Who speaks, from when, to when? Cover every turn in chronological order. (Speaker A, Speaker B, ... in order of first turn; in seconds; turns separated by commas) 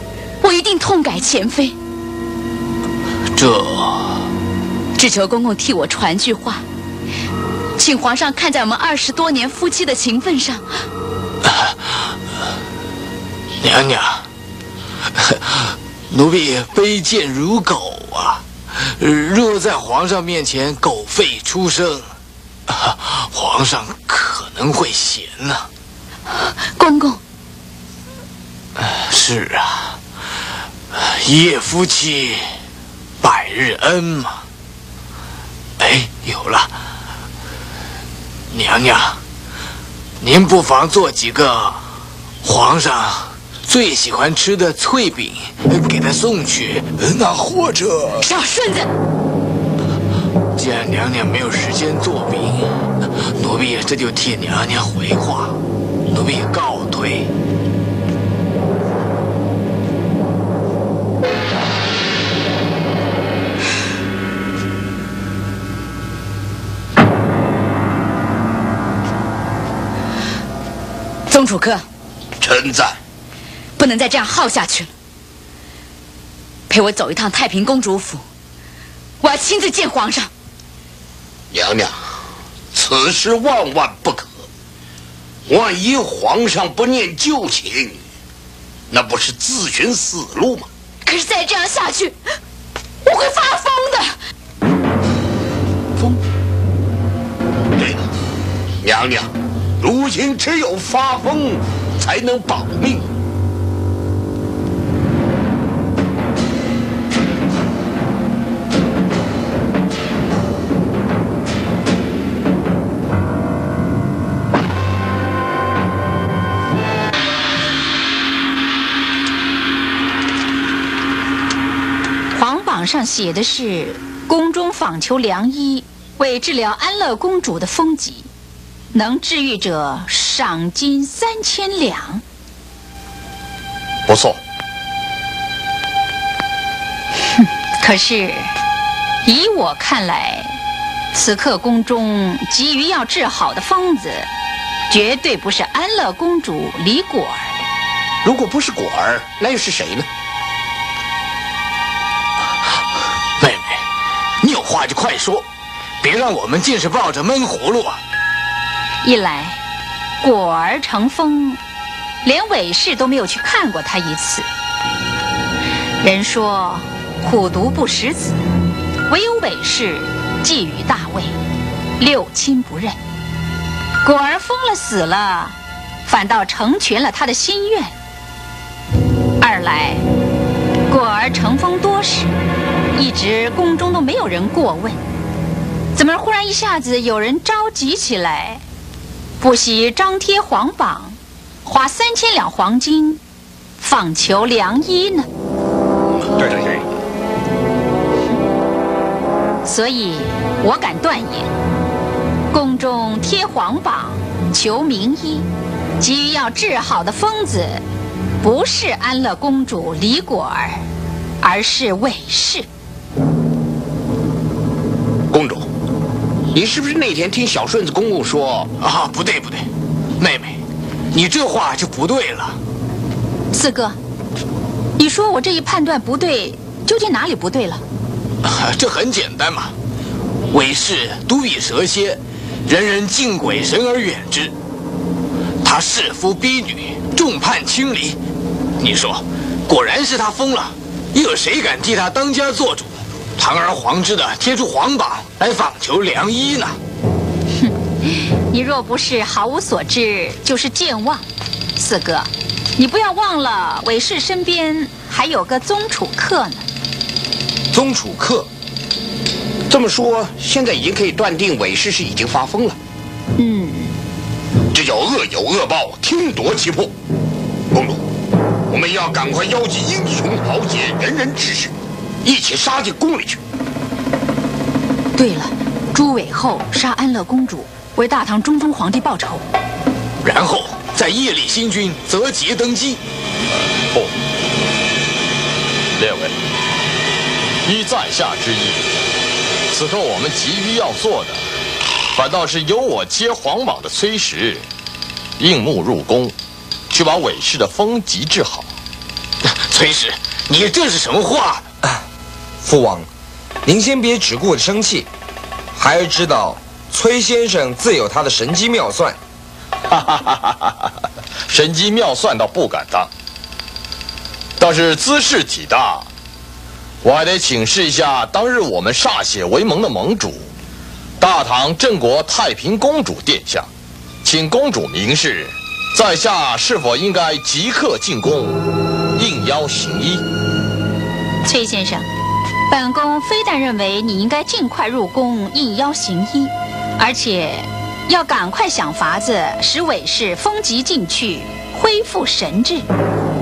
Speaker A: 0.4-1.8, Speaker B: 3.3-4.3, Speaker A: 5.0-6.6, Speaker A: 7.8-10.7, Speaker B: 11.4-12.1, Speaker B: 13.6-14.3, Speaker B: 15.1-22.1, Speaker B: 22.7-25.7, Speaker A: 26.4-27.2, Speaker B: 28.8-30.0, Speaker B: 30.9-32.5, Speaker B: 33.2-34.4, Speaker B: 35.8-36.8, Speaker B: 38.5-39.2, Speaker B: 40.2-41.8, Speaker B: 42.4-48.3, Speaker A: 48.2-48.9, Speaker B: 50.5-52.7, Speaker B: 53.4-57.3, Speaker A: 71.3-71.8, Speaker C: 72.4-73.0, Speaker A: 73.8-74.9, Speaker A: 76.7-78.2, Speaker A: 79.2-80.3, Speaker C: 81.5-82.1, Speaker C: 82.7-84.3, Speaker C: 85.5-88.0, Speaker C: 88.9-90.7, Speaker A: 91.0-92.2, Speaker A: 93.0-94.0, Speaker C: 97.8-98.1, Speaker C: 98.8-103.1, Speaker D: 122.3-128.3, Speaker D: 128.9-132.2, Speaker E: 134.1-134.4, Speaker D: 137.3-138.5, Speaker D: 139.2-140.6, Speaker D: 141.1-144.3, Speaker D: 144.9-147.5, Speaker C: 148.2-150.1, Speaker B: 153.4-153.8, Speaker B: 154.4-155.4, Speaker B: 156.0-158.0, Speaker D: 159.0-159.6, Speaker D: 160.2-161.6, Speaker D: 162.2-164.4, Speaker D: 166.0-168.4, Speaker D: 169.1-171.3, Speaker D: 172.0-173.0, Speaker D: 174.0-175.6, Speaker D: 176.1-177.9, Speaker D: 179.4-180.0, Speaker D: 180.9-182.3, Speaker D: 182.9-185.0, Speaker D: 185.9-188.6, Speaker D: 189.4-193.2, Speaker D: 193.8-195.3, Speaker C: 196.4-196.8, Speaker D: 199.6-201.5, Speaker D: 202.5-205.5, Speaker D: 206.0-207.8, Speaker D: 208.4-210.8, Speaker D: 211.4-212.7, Speaker C: 215.3-215.7, Speaker C: 216.5-218.7, Speaker B: 218.8-219.7, Speaker B: 220.2-220.6, Speaker B: 221.1-222.6, Speaker D: 223.5-224.0, Speaker D: 225.0-227.8, Speaker B: 228.4-229.7, Speaker B: 230.5-234.5, Speaker B: 235.6-238.2, Speaker B: 238.8-246.8, Speaker D: 247.6-256.6, Speaker C: 257.7-258.4, Speaker C: 259.7-262.8, Speaker D: 263.4-263.9, Speaker C: 264.7-266.9, Speaker C: 267.7-268.0, Speaker C: 268.7-273.4, Speaker D: 275.2-279.4, Speaker B: 280.2-283.0, Speaker E: 283.5-284.1, Speaker E: 286.0-286.3, Speaker E: 287.6-288.9, Speaker E: 289.7-291.4, Speaker E: 292.1-294.7, Speaker E: 295.4-296.3, Speaker E: 296.9-298.7, Speaker B: 299.5-301.6, Speaker F: 302.6-303.1, Speaker F: 303.6-305.1, Speaker F: 305.7-309.2, Speaker E: 309.9-310.9, Speaker E: 311.5-313.1, Speaker E: 314.6-316.1, Speaker E: 317.0-320.5, Speaker E: 321.2-323.7, Speaker E: 324.2-328.6, Speaker E: 329.1-330.2, Speaker D: 331.4-332.1, Speaker D: 332.7-342.9